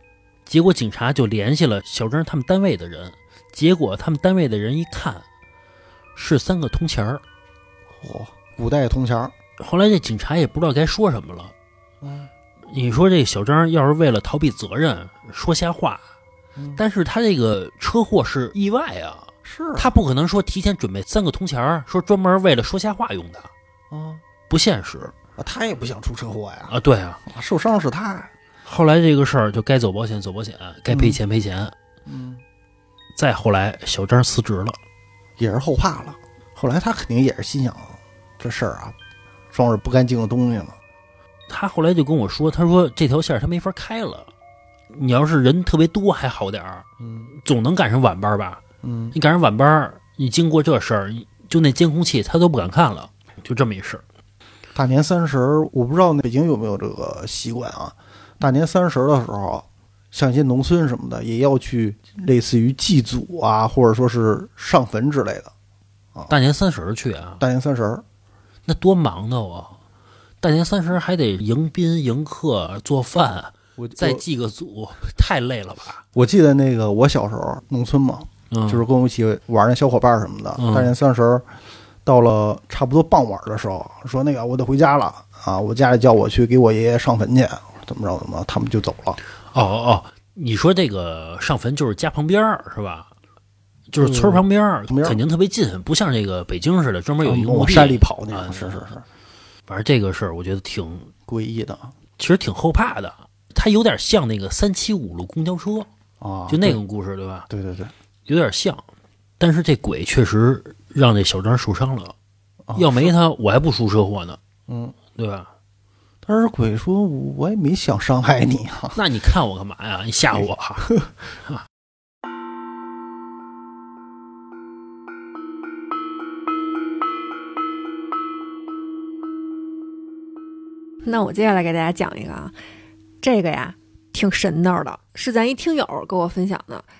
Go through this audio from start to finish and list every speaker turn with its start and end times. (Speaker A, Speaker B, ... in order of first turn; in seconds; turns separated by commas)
Speaker A: 0.5-5.2, Speaker A: 6.1-7.2, Speaker B: 7.9-9.3, Speaker A: 9.6-11.5, Speaker B: 12.0-12.3, Speaker A: 12.7-16.0, Speaker B: 16.6-16.8, Speaker A: 16.8-23.5, Speaker B: 19.4-19.9, Speaker B: 23.9-24.2, Speaker A: 24.5-25.1, Speaker B: 25.4-26.7, Speaker A: 26.7-27.2, Speaker B: 27.2-28.3, Speaker A: 28.6-31.7, Speaker B: 30.9-31.2, Speaker B: 32.0-32.4, Speaker A: 33.1-34.8, Speaker B: 35.4-39.0, Speaker B: 39.5-40.8, Speaker A: 41.5-44.3, Speaker A: 44.9-46.9, Speaker B: 47.0-47.3, Speaker A: 47.4-48.6, Speaker B: 48.8-49.1, Speaker A: 49.1-54.0, Speaker B: 54.7-65.5, Speaker A: 66.3-67.4, Speaker B: 67.4-68.0, Speaker A: 68.7-69.8, Speaker A: 70.4-76.0, Speaker B: 73.8-74.2, Speaker B: 76.1-81.5, Speaker A: 78.5-78.8, Speaker A: 80.6-80.9, Speaker B: 82.0-89.2, Speaker A: 89.5-93.1, Speaker A: 93.9-98.8, Speaker B: 94.0-95.2, Speaker B: 97.2-99.0, Speaker A: 99.7-101.1, Speaker B: 101.2-101.9, Speaker A: 102.2-105.9, Speaker B: 106.2-106.8, Speaker A: 106.5-107.5, Speaker B: 107.5-107.9, Speaker A: 108.3-108.8, Speaker A: 109.4-112.1, Speaker B: 112.7-113.1, Speaker A: 112.7-114.4, Speaker B: 114.7-115.0, Speaker A: 115.1-115.5, Speaker B: 116.2-119.0, Speaker A: 118.9-121.6, Speaker B: 120.3-121.0, Speaker C: 131.0-132.5, Speaker C: 133.2-136.8